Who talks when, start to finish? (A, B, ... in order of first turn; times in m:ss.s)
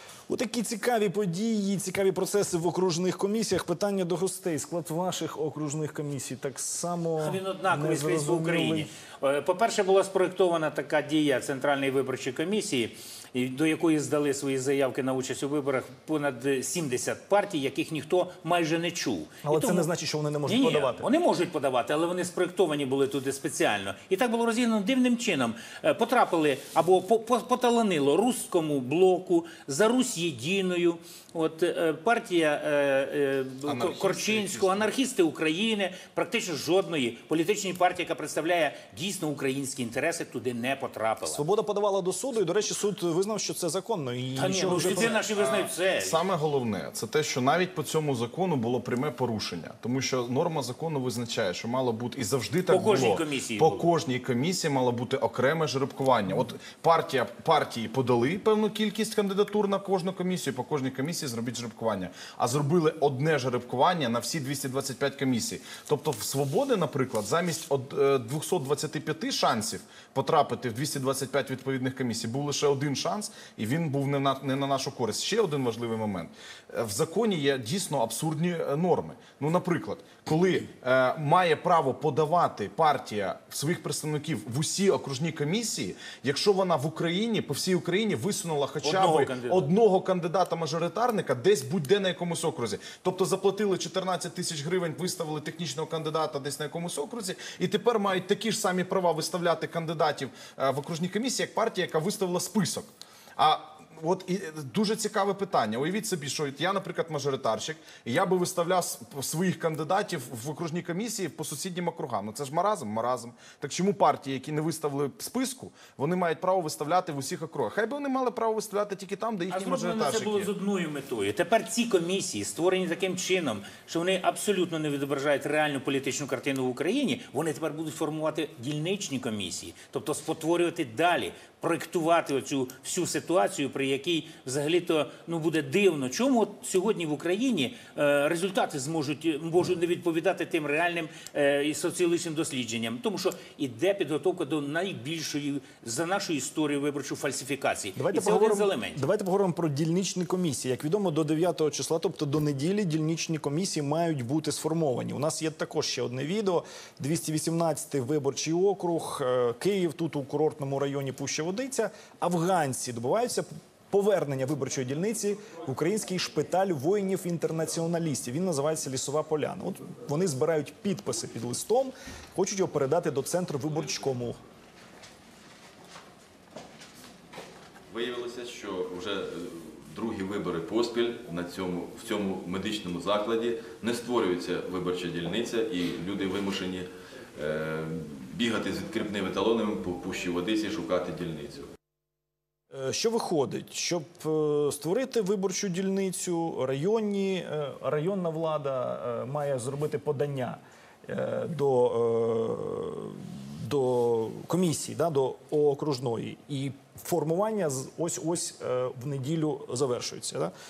0:00.3-0:08.9 A
0:07.2-0:19.9 B
0:19.4-0:21.1 A
0:20.4-0:41.4 B
0:33.6-0:34.9 C
0:41.2-0:45.2 A
0:44.4-0:46.2 B
0:44.9-2:00.5 C
0:52.7-0:53.8 B
1:28.8-1:29.7 B
1:59.5-2:29.0 B
2:28.0-2:54.4 A
2:57.9-3:11.7 D
3:12.7-3:30.5 A